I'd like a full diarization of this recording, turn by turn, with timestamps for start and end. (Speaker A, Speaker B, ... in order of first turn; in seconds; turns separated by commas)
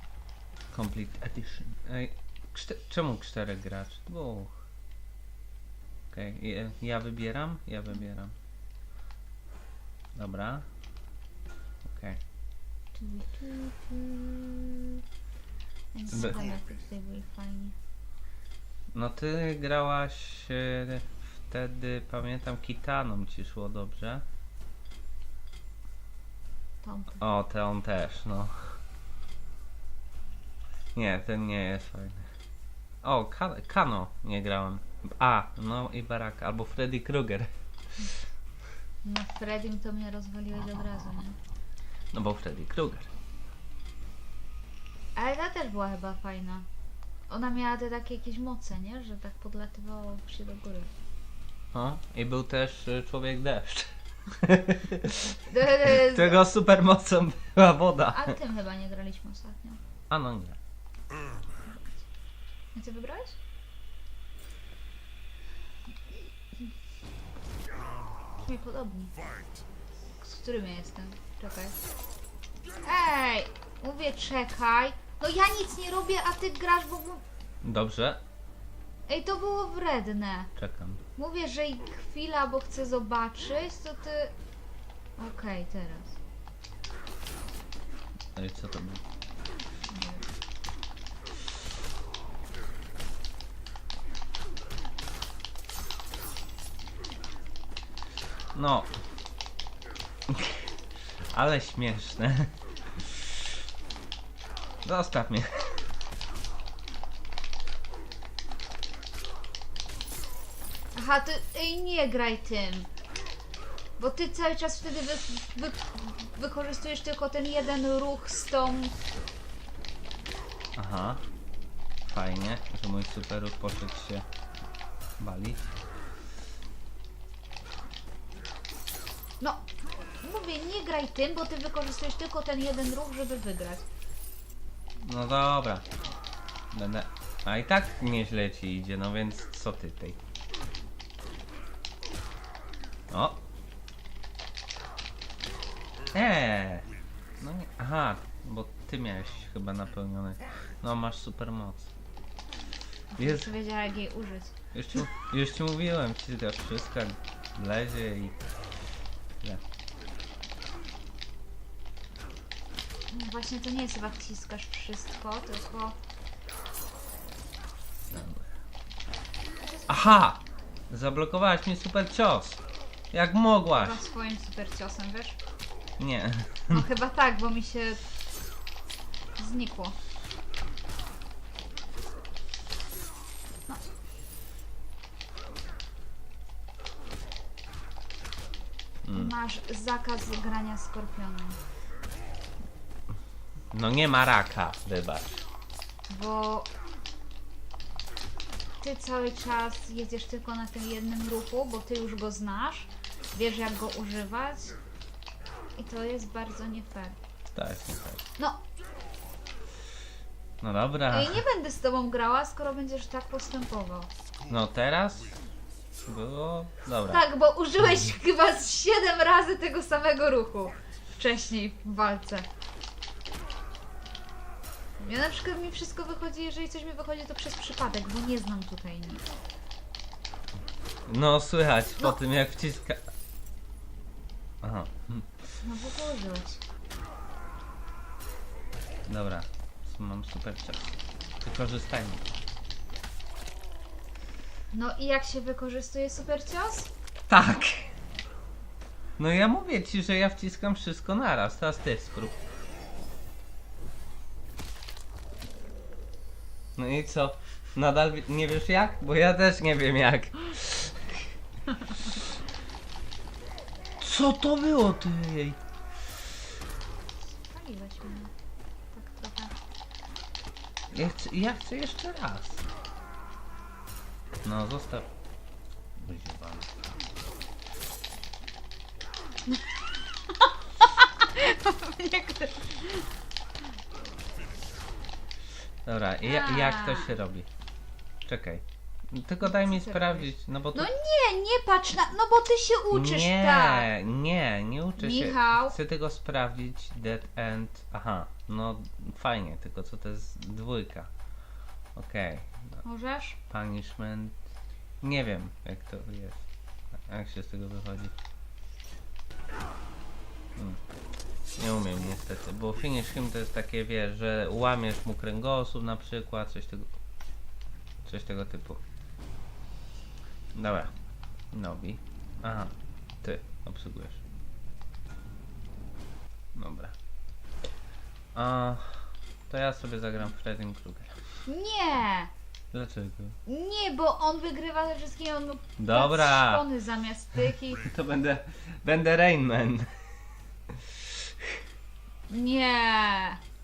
Speaker A: 0.7-4.5, Speaker A: 6.1-8.3, Speaker A: 10.2-10.7, Speaker A: 11.8-12.2, Speaker B: 12.9-15.0, Speaker B: 15.9-17.8, Speaker A: 16.1-16.4, Speaker A: 18.9-24.2, Speaker B: 26.8-27.4, Speaker A: 27.2-28.7, Speaker A: 30.9-32.3, Speaker A: 33.0-37.5, Speaker B: 39.0-41.4, Speaker A: 42.1-43.1, Speaker B: 45.1-46.7, Speaker B: 47.3-50.9, Speaker A: 51.7-58.4, Speaker B: 55.5-56.4, Speaker B: 58.1-59.8, Speaker A: 60.1-60.6, Speaker B: 61.6-62.0, Speaker B: 62.7-63.4, Speaker B: 68.4-69.2, Speaker B: 70.2-71.8, Speaker B: 72.8-77.2, Speaker A: 77.6-78.2, Speaker B: 79.1-80.5, Speaker A: 80.6-81.0, Speaker B: 81.2-84.3, Speaker B: 85.2-86.2, Speaker A: 88.3-89.0, Speaker B: 89.9-90.3, Speaker A: 98.5-98.9, Speaker A: 100.3-100.7, Speaker A: 101.3-103.5, Speaker A: 104.8-105.8, Speaker B: 110.9-112.9, Speaker B: 114.0-119.0, Speaker A: 120.8-121.2, Speaker A: 122.0-124.2, Speaker A: 125.2-125.7, Speaker B: 129.4-129.7, Speaker B: 130.2-133.9, Speaker A: 135.0-135.9, Speaker A: 136.7-140.2, Speaker A: 143.1-143.4, Speaker A: 146.1-151.9, Speaker B: 153.1-154.6, Speaker A: 153.2-153.5, Speaker A: 154.7-158.4, Speaker B: 163.1-166.0, Speaker A: 168.1-168.4, Speaker B: 169.6-170.3, Speaker A: 169.9-172.6, Speaker A: 173.1-174.0, Speaker B: 173.7-175.4, Speaker A: 176.0-176.9, Speaker B: 176.7-178.0, Speaker B: 179.4-180.0, Speaker A: 189.0-189.3, Speaker B: 189.1-191.6, Speaker A: 193.7-195.4, Speaker B: 196.1-196.7, Speaker B: 198.8-204.8, Speaker B: 205.8-207.2, Speaker A: 207.6-208.2, Speaker A: 210.6-211.4, Speaker B: 211.1-214.1, Speaker A: 214.5-215.4, Speaker A: 216.1-217.2, Speaker B: 217.1-222.5, Speaker B: 225.0-229.2, Speaker A: 231.1-233.0, Speaker A: 234.6-235.3, Speaker B: 235.6-236.6, Speaker A: 239.1-242.3, Speaker B: 244.7-246.9, Speaker A: 247.3-247.9, Speaker A: 249.2-252.4, Speaker A: 256.8-261.2, Speaker A: 264.0-265.6, Speaker B: 267.3-268.3, Speaker B: 268.9-269.6, Speaker A: 270.9-272.6, Speaker A: 274.4-275.1, Speaker A: 276.0-276.7, Speaker B: 279.5-283.1, Speaker A: 285.9-287.5, Speaker B: 286.2-287.2, Speaker A: 288.3-290.9, Speaker B: 289.4-293.9, Speaker A: 292.9-301.1, Speaker B: 295.0-295.8, Speaker A: 302.0-302.8, Speaker B: 302.8-303.4, Speaker A: 303.5-304.4, Speaker A: 305.0-306.4, Speaker A: 307.1-308.1, Speaker A: 311.6-316.9, Speaker A: 318.1-318.8, Speaker A: 320.6-320.9, Speaker A: 321.5-324.2, Speaker A: 326.6-326.9, Speaker A: 328.3-331.2, Speaker B: 331.5-332.3, Speaker A: 332.7-333.4, Speaker B: 333.5-337.9, Speaker A: 335.8-336.7, Speaker A: 337.8-339.9, Speaker A: 340.7-341.5, Speaker B: 342.3-343.4